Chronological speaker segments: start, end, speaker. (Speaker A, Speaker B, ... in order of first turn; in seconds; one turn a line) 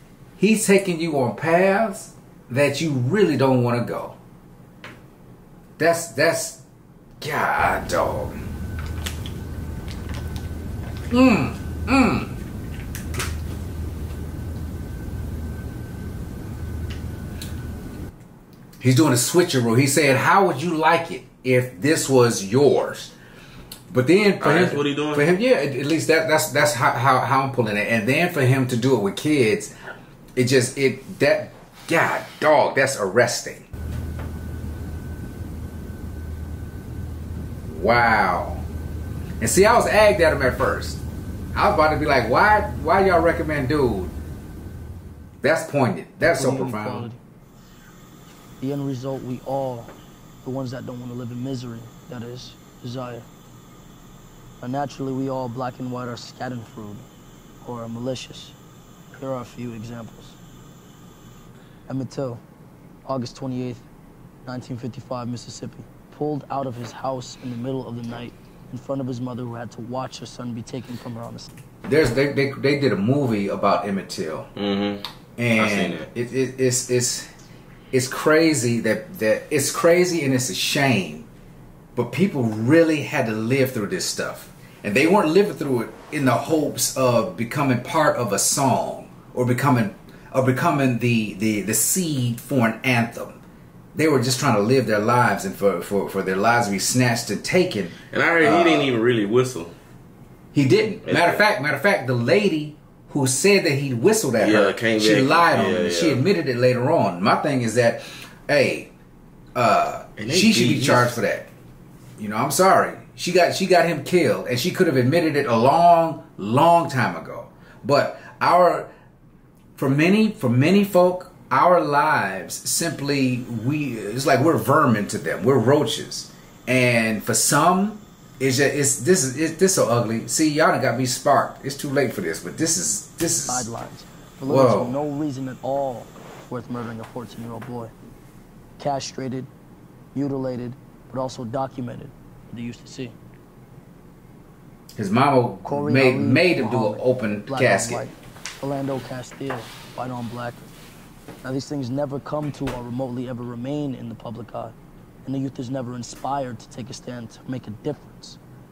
Speaker A: 0.4-4.2
Speaker A: 5.8-6.6
Speaker A: 7.2-8.4
Speaker A: 11.1-12.3
Speaker A: 18.8-23.1
Speaker A: 23.9-29.7
Speaker B: 24.4-25.3
Speaker A: 30.4-33.6
Speaker A: 37.6-38.6
Speaker A: 39.4-41.0
Speaker A: 41.5-44.1
Speaker A: 45.4-47.1
Speaker C: 46.2-47.2
Speaker C: 48.6-53.3
Speaker C: 54.6-57.0
Speaker C: 57.6-58.5
Speaker C: 59.1-60.4
Speaker C: 61.9-62.4
Speaker C: 63.0-63.8
Speaker C: 64.5-71.5
Speaker A: 71.8-74.5
Speaker B: 74.5-76.1
Speaker A: 75.4-77.3
Speaker A: 77.9-81.3
Speaker A: 81.9-93.4
Speaker A: 93.9-99.0
Speaker B: 98.1-99.8
Speaker A: 100.5-108.9
Speaker B: 101.0-101.4
Speaker B: 104.4-106.3
Speaker A: 109.5-111.5
Speaker B: 110.2-111.2
Speaker A: 112.2-118.9
Speaker A: 119.8-133.7
Speaker C: 133.4-137.9
Speaker A: 134.4-135.0
Speaker C: 138.8-139.5
Speaker C: 140.1-143.1
Speaker A: 144.9-148.1
Speaker C: 145.6-150.7
Speaker C: 151.4-154.7
Speaker C: 155.2-158.4